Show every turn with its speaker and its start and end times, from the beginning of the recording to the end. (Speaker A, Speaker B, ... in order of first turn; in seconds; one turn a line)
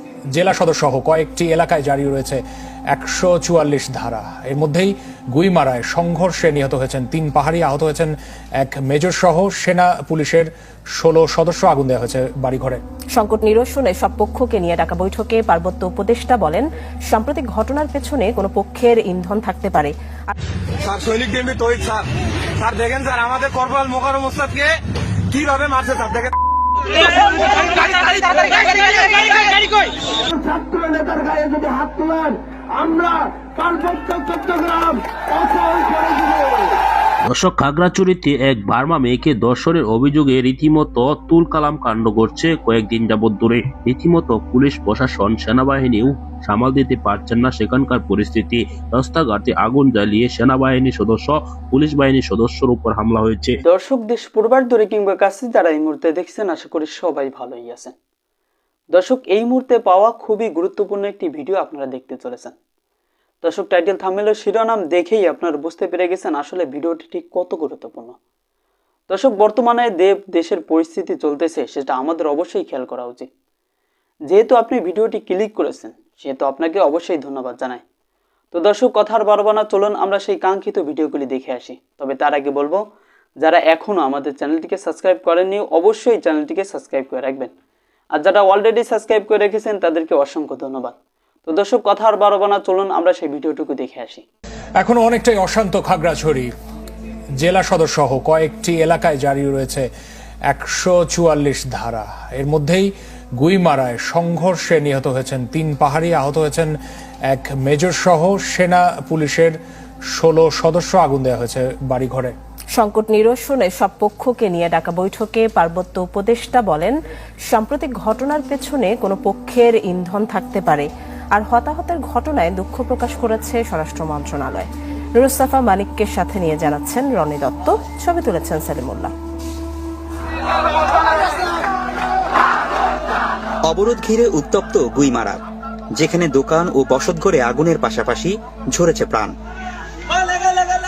Speaker A: 0.3-12.8
Speaker B: 13.1-19.9
Speaker C: 20.9-22.0
Speaker C: 22.6-24.6
Speaker C: 25.4-26.2
Speaker D: 30.4-32.3
Speaker D: 32.9-36.7
Speaker E: 37.3-53.6
Speaker D: 53.6-57.9
Speaker D: 58.9-62.5
Speaker D: 63.4-68.2
Speaker D: 69.1-73.3
Speaker D: 74.3-77.8
Speaker D: 78.5-82.8
Speaker D: 83.4-87.5
Speaker D: 88.1-90.9
Speaker D: 91.5-94.2
Speaker A: 94.8-96.5
Speaker A: 97.4-99.9
Speaker A: 100.5-106.7
Speaker A: 107.3-109.5
Speaker A: 110.1-112.3
Speaker B: 112.8-116.9
Speaker B: 117.5-124.7
Speaker B: 125.2-129.1
Speaker F: 133.7-135.4
Speaker F: 136.0-139.3